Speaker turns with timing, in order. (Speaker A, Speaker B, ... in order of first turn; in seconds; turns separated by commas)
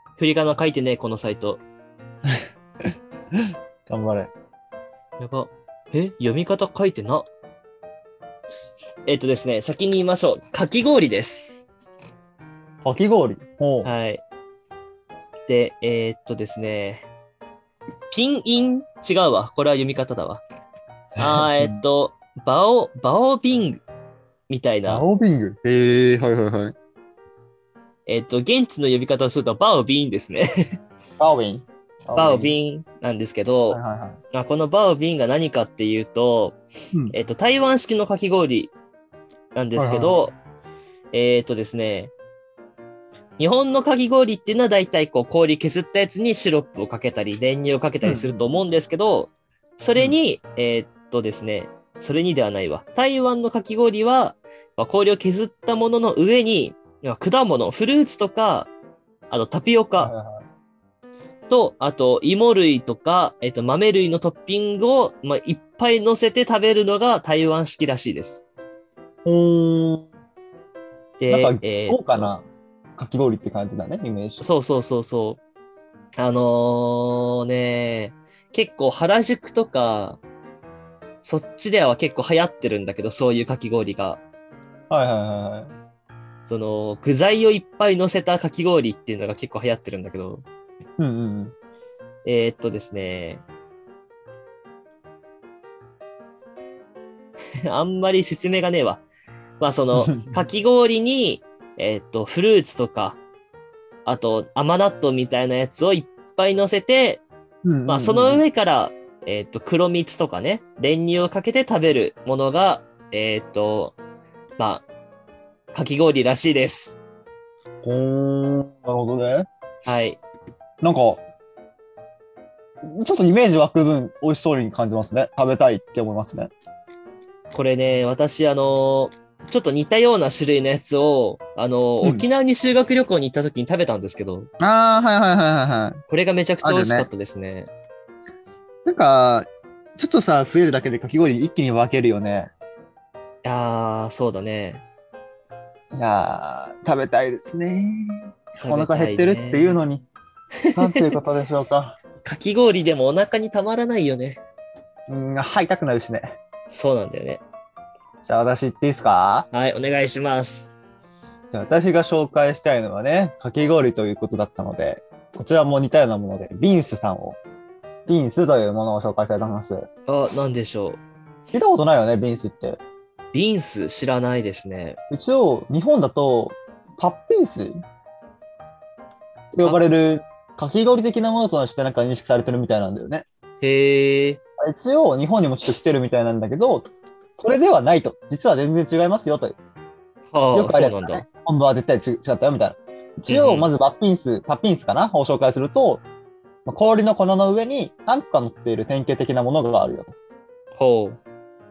Speaker A: 0.2-1.6, Speaker B: 3.3-4.3, Speaker A: 5.2-7.2, Speaker A: 9.1-11.6, Speaker B: 12.8-13.9, Speaker A: 13.8-14.2, Speaker A: 15.5-17.1, Speaker A: 18.1-20.4, Speaker B: 21.2-21.8, Speaker A: 21.2-23.8, Speaker A: 24.5-25.0, Speaker B: 24.9-26.7, Speaker A: 28.1-30.8, Speaker B: 31.2-32.5, Speaker A: 32.1-33.8, Speaker B: 33.7-34.2, Speaker A: 34.3-36.6, Speaker A: 37.1-38.7, Speaker A: 39.5-40.4, Speaker B: 39.8-40.2, Speaker A: 41.1-42.1, Speaker A: 43.4-58.7, Speaker B: 48.0-48.3, Speaker A: 59.3-60.1, Speaker B: 60.0-60.4, Speaker A: 61.5-68.5, Speaker B: 69.2-70.1, Speaker A: 71.2-72.3, Speaker B: 71.3-72.5, Speaker B: 73.0-74.4, Speaker A: 74.4-75.4, Speaker A: 76.2-80.2, Speaker A: 81.2-84.2, Speaker B: 84.9-85.7, Speaker A: 86.5-90.4, Speaker B: 91.0-91.5, Speaker A: 92.2-93.4, Speaker A: 97.7-99.0, Speaker A: 99.6-103.2, Speaker B: 99.9-100.3, Speaker A: 104.0-107.2, Speaker B: 107.6-108.4, Speaker A: 107.9-114.0, Speaker A: 114.6-114.8, Speaker A: 115.7-117.0, Speaker B: 117.8-119.5, Speaker A: 119.8-120.2, Speaker B: 120.8-121.2, Speaker B: 122.8-126.5, Speaker A: 127.4-134.5, Speaker B: 132.0-132.3, Speaker B: 134.6-136.0, Speaker A: 136.1-137.7, Speaker B: 136.6-137.1, Speaker B: 138.8-142.5, Speaker A: 143.4-144.8, Speaker B: 145.9-150.1, Speaker A: 148.6-149.7, Speaker A: 150.6-151.1, Speaker B: 150.7-152.0, Speaker A: 152.2-154.4, Speaker B: 155.1-156.4, Speaker A: 156.7-157.4, Speaker B: 158.2-159.5, Speaker A: 159.5-160.7, Speaker B: 161.5-167.4, Speaker B: 168.1-169.9, Speaker A: 170.1-171.0, Speaker B: 171.5-172.8, Speaker A: 173.3-175.0, Speaker B: 175.1-177.8, Speaker B: 179.5-183.2, Speaker A: 183.6-184.4, Speaker B: 184.6-189.6, Speaker A: 190.3-191.2, Speaker B: 190.5-196.0, Speaker A: 193.3-193.7, Speaker B: 196.7-200.1, Speaker A: 200.8-201.2